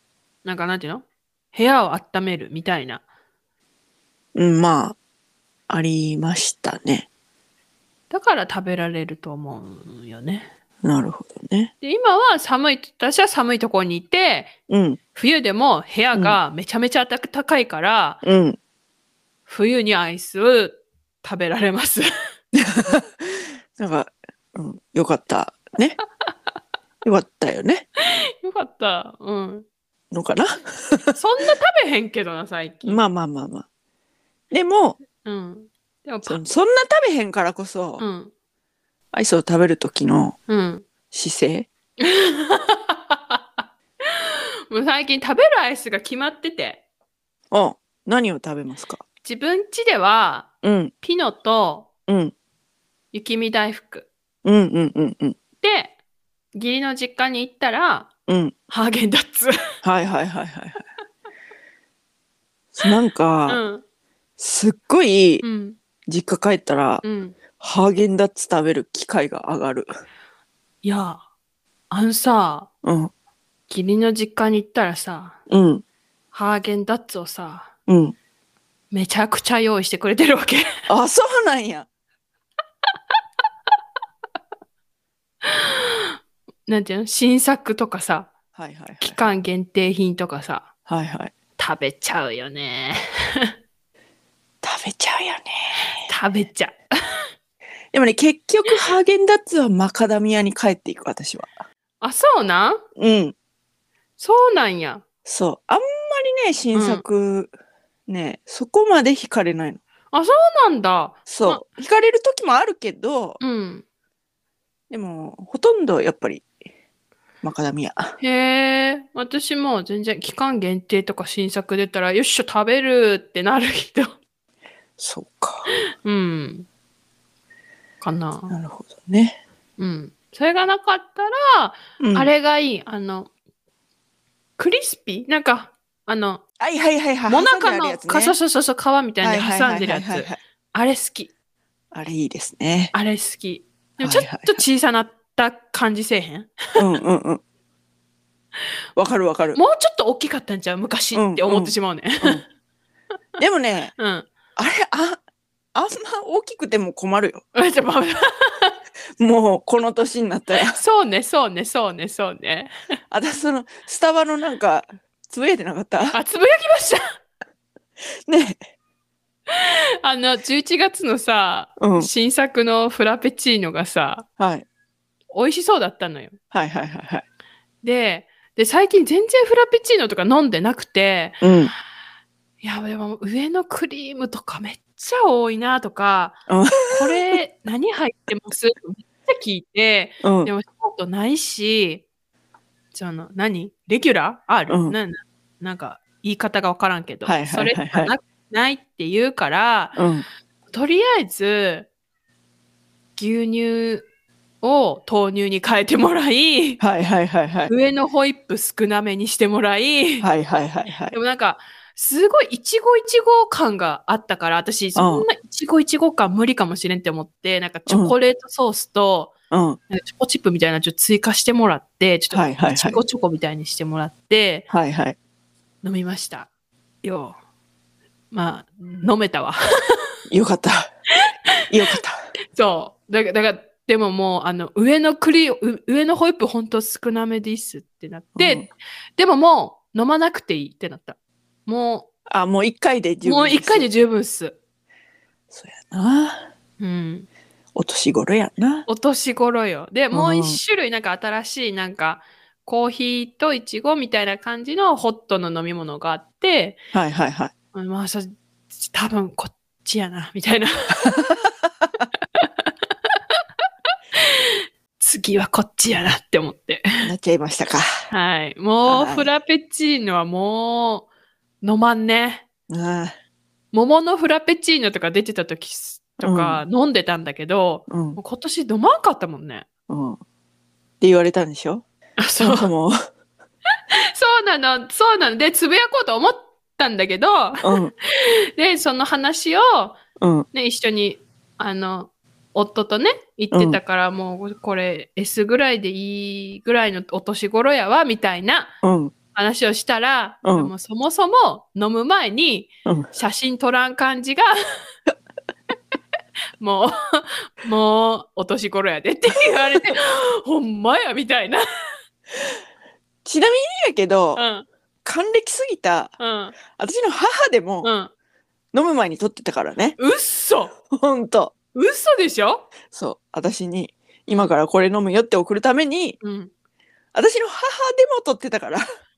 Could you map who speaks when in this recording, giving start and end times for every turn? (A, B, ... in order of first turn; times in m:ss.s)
0:00.4-0:03.0 A
0:04.4-0:05.0 B
0:05.7-0:07.1 B
0:08.1-0:10.5 A
0:10.8-0:11.7 B
0:11.8-0:14.5 A
0:14.7-0:15.0 B
0:15.2-0:18.2 A
0:18.2-0:18.6 B
0:19.5-0:22.1 A
0:22.5-0:26.0 B
0:27.0-0:27.9 B
0:28.0-0:29.6 A
0:30.1-0:31.2 B
0:31.2-0:33.0 A
0:32.8-0:33.7 B
0:34.5-0:35.0 B
0:35.2-0:36.4 A
0:36.3-0:38.0 B
0:38.0-0:38.3 A
0:39.1-0:40.4 B
0:40.5-0:40.8 A
0:41.1-0:41.7 B
0:42.0-0:46.8 A
0:47.5-0:49.0 B
0:49.2-0:50.5 A
0:50.6-0:50.9 B
0:51.0-0:51.9 A
0:52.1-0:52.3 B
0:53.1-0:54.1 A
0:54.4-0:55.4 B
0:55.6-0:56.0 A
0:56.5-0:58.1 A
0:58.3-0:58.5 B
0:58.7-0:59.6 A
0:59.8-1:00.8 B
1:02.7-1:03.6 B
1:03.5-1:03.8 A
1:04.4-1:05.4 B
1:05.4-1:05.8 A
1:06.1-1:07.0 B
1:07.0-1:07.4 A
1:07.6-1:09.9 B
1:10.8-1:11.2 A
1:11.9-1:12.7 A
1:12.8-1:13.1 B
1:13.7-1:15.4 A
1:15.5-1:15.8 B
1:16.3-1:17.7 A
1:17.9-1:18.2 B
1:18.9-1:20.7 A
1:20.9-1:21.9 B
1:25.4-1:28.3 A
1:28.6-1:29.3 B
1:29.0-1:30.7 A
1:30.9-1:31.3 B
1:31.6-1:33.5 A
1:34.6-1:36.1 B
1:36.0-1:36.8 A
1:37.9-1:41.6 B
1:42.0-1:42.8 A
1:43.0-1:43.4 B
1:44.2-1:45.0 A
1:45.3-1:47.5 B
1:46.7-1:47.0 A
1:48.1-1:49.8 B
1:50.1-1:51.6 A
1:51.3-1:53.4 B
1:53.4-1:53.8 A
1:54.9-1:56.5 B
1:57.4-1:58.2 B
1:58.2-2:04.2 A
2:05.0-2:05.7 B
2:05.9-2:06.7 A
2:08.0-2:08.6 A
2:08.5-2:09.4 B
2:09.8-2:13.3 A
2:12.0-2:12.3 B
2:14.6-2:16.4 A
2:16.6-2:18.4 B
2:17.3-2:21.3 A
2:19.2-2:20.4 B
2:21.9-2:22.9 B
2:22.9-2:26.8 A
2:24.0-2:24.6 B
2:26.8-2:27.4 B
2:29.0-2:29.6 B
2:29.6-2:32.4 A
2:31.1-2:32.4 B
2:33.4-2:33.9 B
2:34.0-2:34.3 A
2:34.6-2:35.2 B
2:35.8-2:37.4 B
2:37.5-2:38.8 A
2:39.2-2:40.8 B
2:40.7-2:42.7 A
2:43.1-2:46.2 B
2:46.1-2:47.0 A
2:48.3-2:48.6 B
2:49.5-2:54.3 A
2:51.8-2:52.1 B
2:54.4-2:54.7 B
2:55.3-2:56.4 A
2:56.5-2:57.2 B
2:57.8-3:01.4 A
3:01.4-3:01.7 B
3:02.6-3:12.0 A
3:06.5-3:07.4 B
3:10.2-3:10.5 B
3:12.9-3:20.0 A
3:14.7-3:15.0 B
3:17.2-3:18.1 B
3:20.0-3:20.3 B
3:20.7-3:21.9 A
3:23.2-3:24.1 A
3:24.6-3:26.8 A
3:26.8-3:27.7 B
3:27.7-3:30.3 A
3:30.2-3:31.2 B
3:31.1-3:39.3 A
3:35.0-3:35.3 B
3:37.9-3:38.2 B
3:39.5-3:39.8 B
3:39.9-3:44.7 A
3:42.3-3:43.0 B
3:44.7-3:45.2 B
3:45.8-3:46.5 A
3:47.0-3:47.4 A
3:48.3-3:50.2 A
3:50.3-3:50.9 B
3:51.7-3:52.2 B
3:52.5-4:02.1 A
3:58.4-3:58.7 B
4:02.3-4:03.9 B
4:03.2-4:04.6 A
4:05.5-4:06.5 B
4:06.8-4:07.3 A
4:07.8-4:08.9 B
4:08.9-4:16.8 A
4:10.1-4:10.6 B
4:16.9-4:17.5 B
4:17.7-4:21.2 A
4:21.0-4:21.4 B
4:22.4-4:23.2 A
4:24.2-4:27.1 A
4:27.0-4:27.9 B
4:28.1-4:31.1 A
4:28.8-4:29.3 B
4:31.6-4:32.4 A
4:32.7-4:33.2 B
4:33.7-4:39.7 A
4:36.2-4:36.6 B
4:37.9-4:38.2 B
4:39.9-4:40.2 B
4:41.0-4:41.8 B
4:42.2-4:42.7 A
4:42.4-4:43.0 B
4:44.0-4:50.0 A
4:47.6-4:47.9 B
4:50.2-4:50.5 B
4:50.5-4:58.7 A
4:53.5-4:53.8 B
4:58.8-4:59.1 B
4:59.3-5:04.6 A
5:00.4-5:00.7 B
5:06.6-5:11.6 A
5:13.2-5:14.4 B
5:14.4-5:14.7 A
5:15.0-5:16.2 B
5:16.2-5:16.6 A
5:16.7-5:17.9 B
5:17.8-5:18.1 A
5:18.7-5:20.0 B
5:20.0-5:20.7 A
5:20.9-5:21.5 B
5:21.7-5:22.7 A
5:22.9-5:26.2 B
5:26.2-5:26.5 A
5:27.1-5:28.8 B